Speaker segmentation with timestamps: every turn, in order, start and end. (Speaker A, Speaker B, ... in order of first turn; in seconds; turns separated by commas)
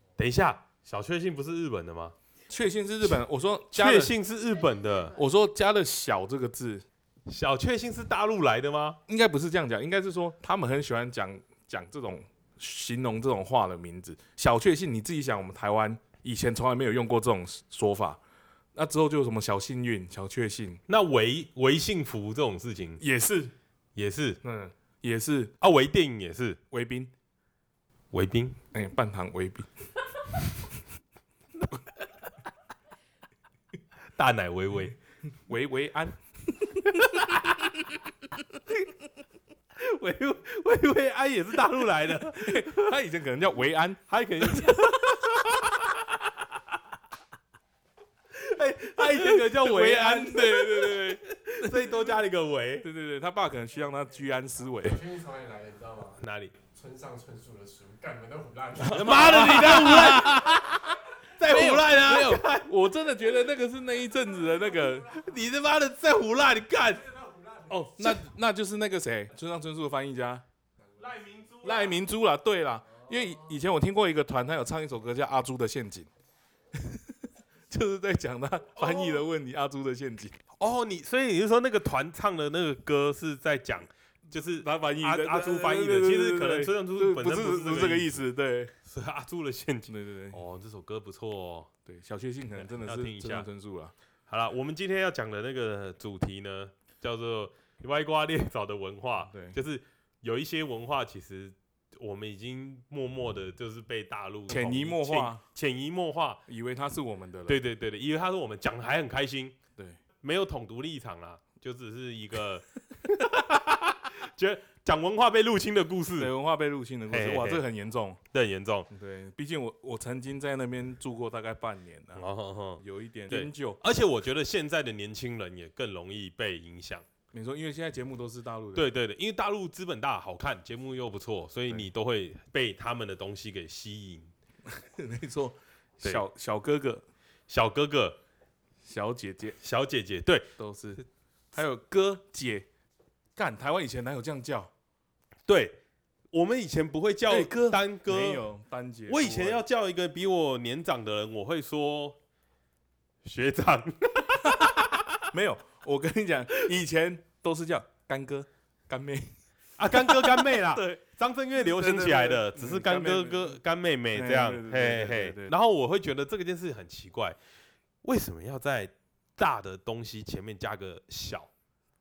Speaker A: 0.2-2.1, Speaker B: 2.5-4.1, Speaker A: 3.7-5.2, Speaker B: 5.2-6.8, Speaker A: 7.3-9.0, Speaker B: 9.1-18.2, Speaker B: 18.7-20.8, Speaker A: 20.9-23.0, Speaker B: 23.0-23.5, Speaker A: 23.9-24.4, Speaker B: 24.4-25.5, Speaker A: 25.6-26.6, Speaker B: 26.7-27.1, Speaker A: 28.1-28.6, Speaker B: 28.7-29.7, Speaker A: 34.1-34.9, Speaker B: 35.5-36.9, Speaker A: 37.0-37.8, Speaker A: 39.7-42.9, Speaker B: 42.3-44.8, Speaker A: 44.1-46.5, Speaker A: 48.3-52.9, Speaker B: 49.0-52.1, Speaker B: 52.8-55.0, Speaker C: 54.8-56.2, Speaker A: 56.1-56.6, Speaker C: 56.7-60.2, Speaker B: 58.8-60.7, Speaker A: 58.9-62.7, Speaker B: 61.4-65.1, Speaker A: 65.0-68.2, Speaker B: 67.8-70.4, Speaker A: 71.0-72.0, Speaker B: 71.6-76.1, Speaker B: 77.7-80.4, Speaker A: 78.8-79.2, Speaker A: 80.6-88.1, Speaker B: 84.5-88.7, Speaker A: 88.8-91.7, Speaker B: 89.9-90.4, Speaker B: 91.8-93.9, Speaker A: 92.6-93.5, Speaker A: 94.3-106.4, Speaker B: 99.3-99.6, Speaker B: 104.5-105.4, Speaker B: 106.5-107.6, Speaker A: 107.5-109.5, Speaker A: 110.2-116.3, Speaker B: 116.2-118.2, Speaker A: 117.1-117.6, Speaker A: 118.3-118.9, Speaker B: 118.9-122.2, Speaker A: 122.2-127.0, Speaker B: 122.8-123.8, Speaker B: 127.3-128.9, Speaker A: 128.7-134.3, Speaker B: 134.7-137.0, Speaker A: 137.5-138.2, Speaker B: 138.8-139.6, Speaker A: 139.6-140.5, Speaker B: 140.6-142.7, Speaker B: 143.3-144.7, Speaker A: 145.5-145.8, Speaker A: 146.3-148.5, Speaker B: 147.3-149.6, Speaker A: 149.1-152.2, Speaker A: 153.2-155.2, Speaker B: 154.5-154.8, Speaker B: 155.3-159.3, Speaker A: 159.8-167.4, Speaker B: 159.8-161.0, Speaker B: 161.5-163.6, Speaker B: 164.1-165.5, Speaker A: 168.0-171.5